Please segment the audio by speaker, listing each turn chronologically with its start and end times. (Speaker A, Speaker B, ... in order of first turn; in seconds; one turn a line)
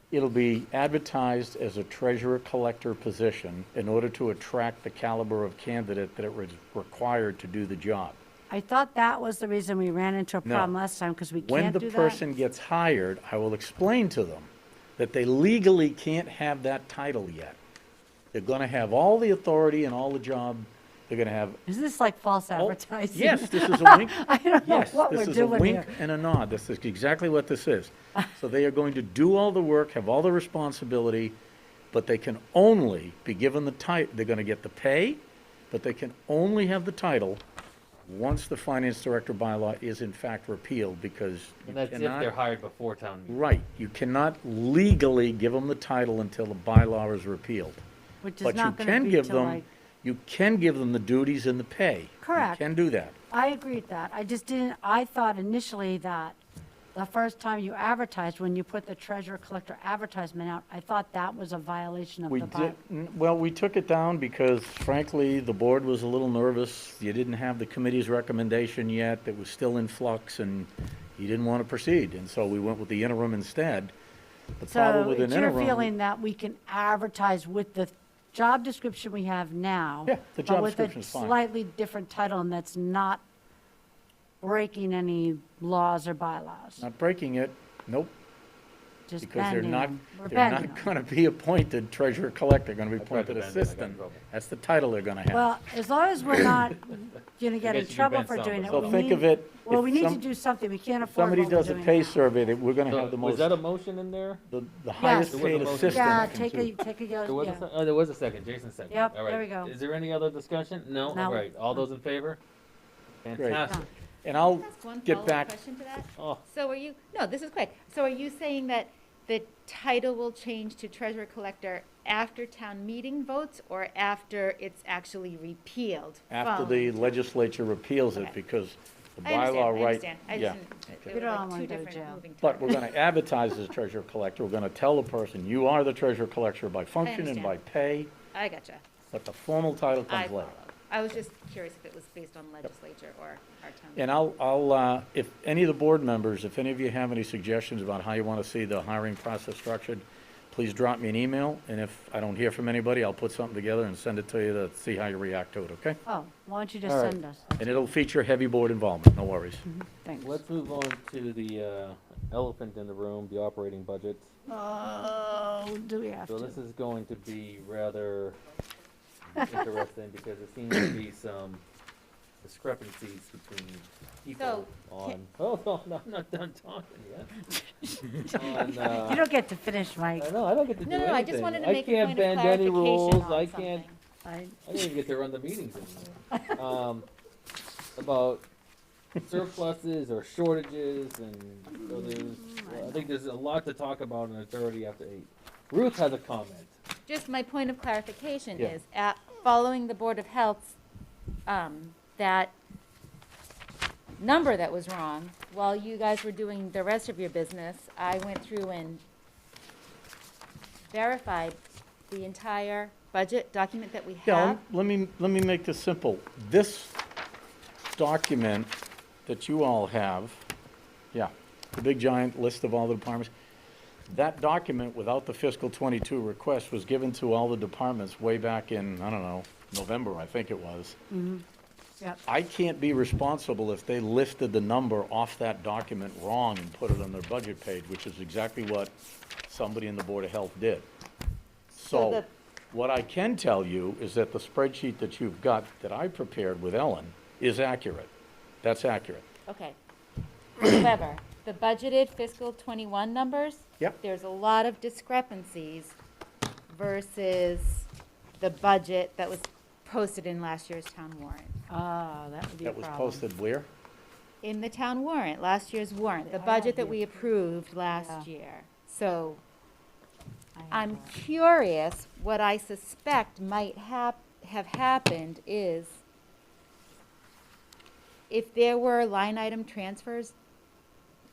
Speaker A: 0.1-8.2
Speaker B: 8.5-12.2
Speaker A: 10.4-10.7
Speaker A: 11.4-17.6
Speaker A: 18.3-21.6
Speaker B: 21.7-26.0
Speaker A: 22.6-31.4
Speaker A: 31.9-37.4
Speaker A: 38.0-42.3
Speaker C: 41.7-43.4
Speaker A: 43.3-47.8
Speaker B: 48.2-49.6
Speaker A: 48.4-53.1
Speaker B: 52.2-52.6
Speaker B: 53.3-56.4
Speaker B: 56.9-62.8
Speaker A: 62.3-73.9
Speaker A: 74.6-75.9
Speaker B: 74.7-83.2
Speaker A: 80.1-81.4
Speaker B: 84.4-86.9
Speaker A: 86.8-88.1
Speaker B: 89.1-90.9
Speaker A: 89.2-95.5
Speaker C: 93.0-94.2
Speaker B: 95.3-102.2
Speaker C: 97.6-99.0
Speaker A: 98.7-100.2
Speaker A: 101.0-103.6
Speaker C: 102.9-104.4
Speaker A: 104.5-106.7
Speaker B: 105.0-107.7
Speaker C: 105.3-106.3
Speaker C: 107.3-112.4
Speaker B: 108.9-109.7
Speaker B: 111.1-111.8
Speaker C: 113.2-113.9
Speaker A: 113.4-113.6
Speaker A: 114.2-115.5
Speaker D: 114.3-127.0
Speaker C: 116.2-116.4
Speaker A: 126.3-131.1
Speaker D: 129.2-132.9
Speaker B: 131.1-132.8
Speaker A: 132.4-138.1
Speaker D: 137.0-137.6
Speaker D: 138.3-138.8
Speaker A: 139.1-140.6
Speaker D: 140.1-144.2
Speaker A: 144.0-156.0
Speaker B: 156.1-157.8
Speaker C: 156.8-157.2
Speaker A: 157.6-159.6
Speaker B: 159.6-160.4
Speaker C: 160.2-164.3
Speaker B: 164.5-166.6
Speaker C: 166.3-168.4
Speaker C: 169.3-171.6
Speaker B: 169.4-169.7
Speaker C: 172.4-177.3
Speaker D: 174.4-175.2
Speaker B: 177.5-180.3
Speaker C: 178.3-179.3
Speaker C: 180.2-183.9
Speaker D: 180.8-184.0
Speaker B: 184.2-184.8
Speaker C: 184.7-187.1
Speaker C: 188.0-188.4
Speaker C: 189.2-196.8
Speaker B: 191.9-193.1
Speaker D: 197.1-200.8
Speaker D: 201.5-202.6
Speaker D: 204.2-209.0
Speaker D: 210.9-214.6
Speaker A: 214.2-216.9
Speaker A: 217.8-218.7
Speaker A: 219.3-220.5
Speaker A: 221.1-223.3
Speaker A: 224.1-231.0
Speaker B: 231.1-231.4
Speaker A: 232.3-238.9
Speaker A: 239.5-240.9
Speaker A: 241.7-248.1
Speaker D: 241.9-242.3
Speaker A: 248.6-249.3
Speaker D: 249.5-249.8
Speaker D: 250.6-256.0
Speaker D: 256.7-257.9
Speaker D: 258.4-261.6
Speaker B: 261.7-263.3
Speaker A: 262.6-263.7
Speaker D: 264.4-269.4
Speaker B: 266.3-267.4
Speaker B: 267.9-268.3
Speaker B: 270.6-271.1
Speaker D: 270.7-276.0
Speaker D: 278.3-280.4